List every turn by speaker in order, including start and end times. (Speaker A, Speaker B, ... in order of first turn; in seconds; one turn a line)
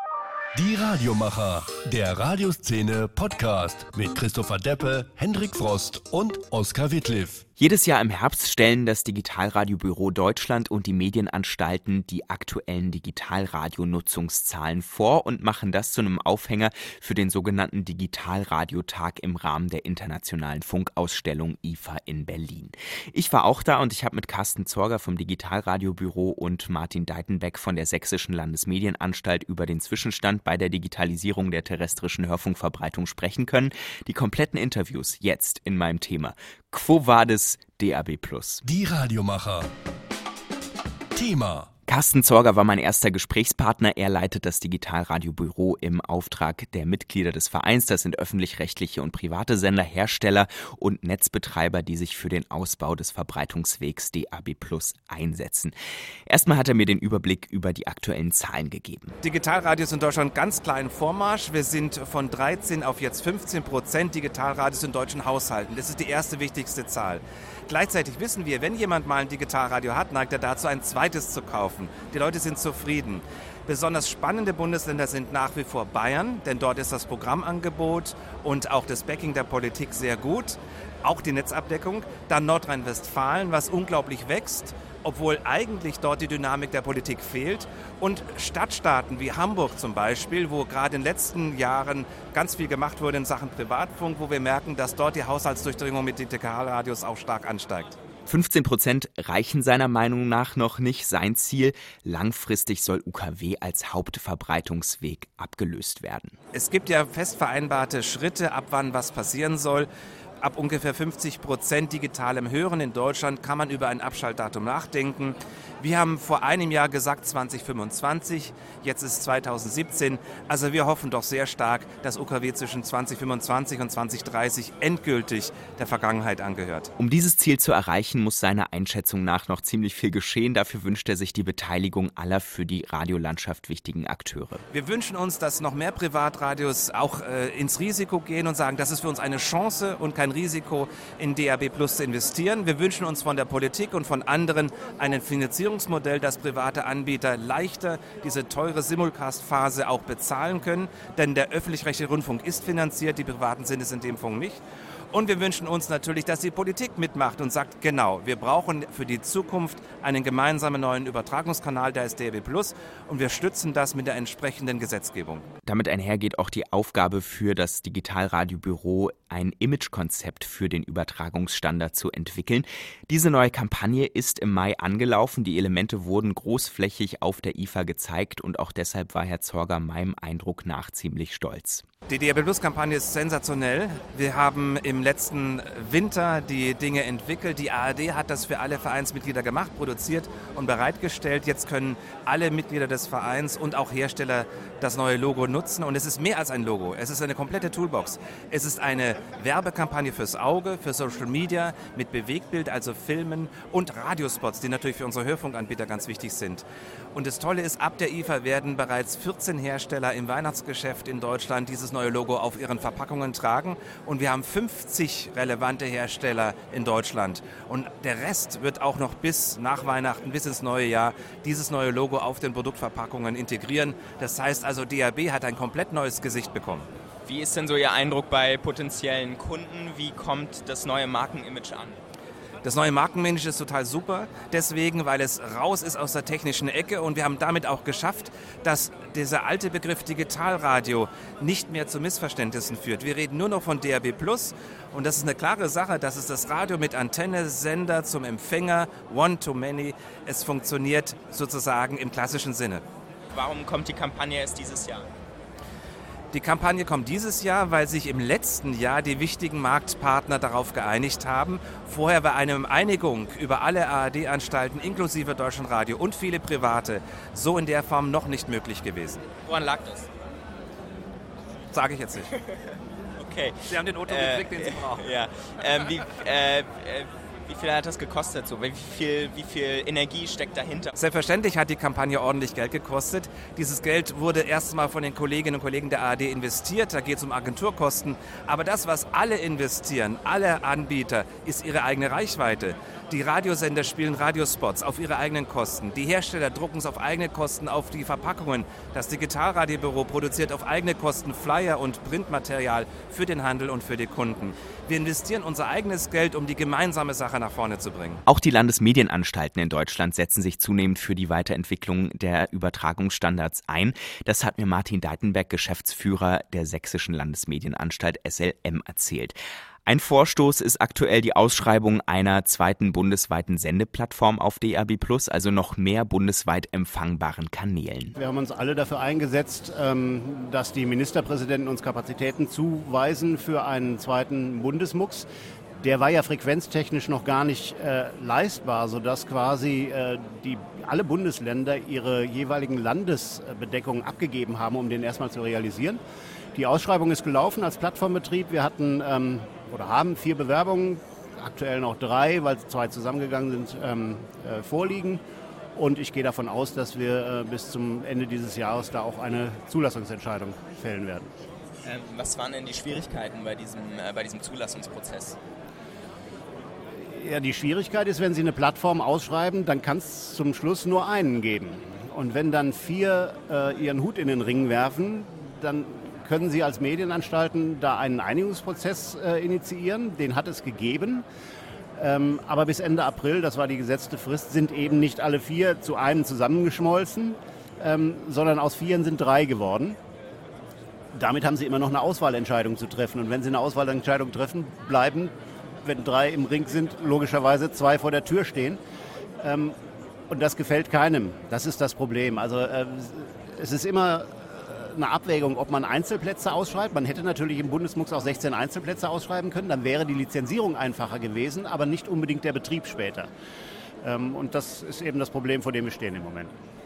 Speaker A: 0.6-7.4
Speaker B: 7.6-38.6
Speaker A: 38.6-39.7
Speaker A: 41.1-41.7
Speaker B: 41.9-55.7
Speaker B: 56.3-59.1
Speaker C: 59.2-98.0
Speaker B: 98.3-106.4
Speaker C: 106.5-109.9
Speaker C: 110.4-126.9
Speaker B: 127.0-134.6
Speaker C: 134.7-165.5
Speaker B: 165.7-181.8
Speaker C: 182.1-226.9
Speaker D: 227.2-232.0
Speaker C: 232.6-252.8
Speaker D: 253.3-255.1
Speaker C: 256.3-269.3
Speaker D: 269.4-270.1
Speaker C: 271.7-272.3
Speaker D: 272.2-272.6
Speaker D: 273.2-280.9
Speaker C: 273.6-275.2
Speaker C: 280.9-308.2
Speaker B: 308.3-328.1
Speaker E: 328.2-335.3
Speaker E: 335.8-346.0
Speaker E: 346.6-355.2
Speaker E: 355.8-361.3
Speaker D: 361.8-365.4
Speaker E: 367.0-381.2
Speaker E: 382.0-390.0
Speaker E: 391.1-398.8
Speaker E: 399.4-399.8
Speaker E: 400.3-413.3
Speaker E: 414.0-416.5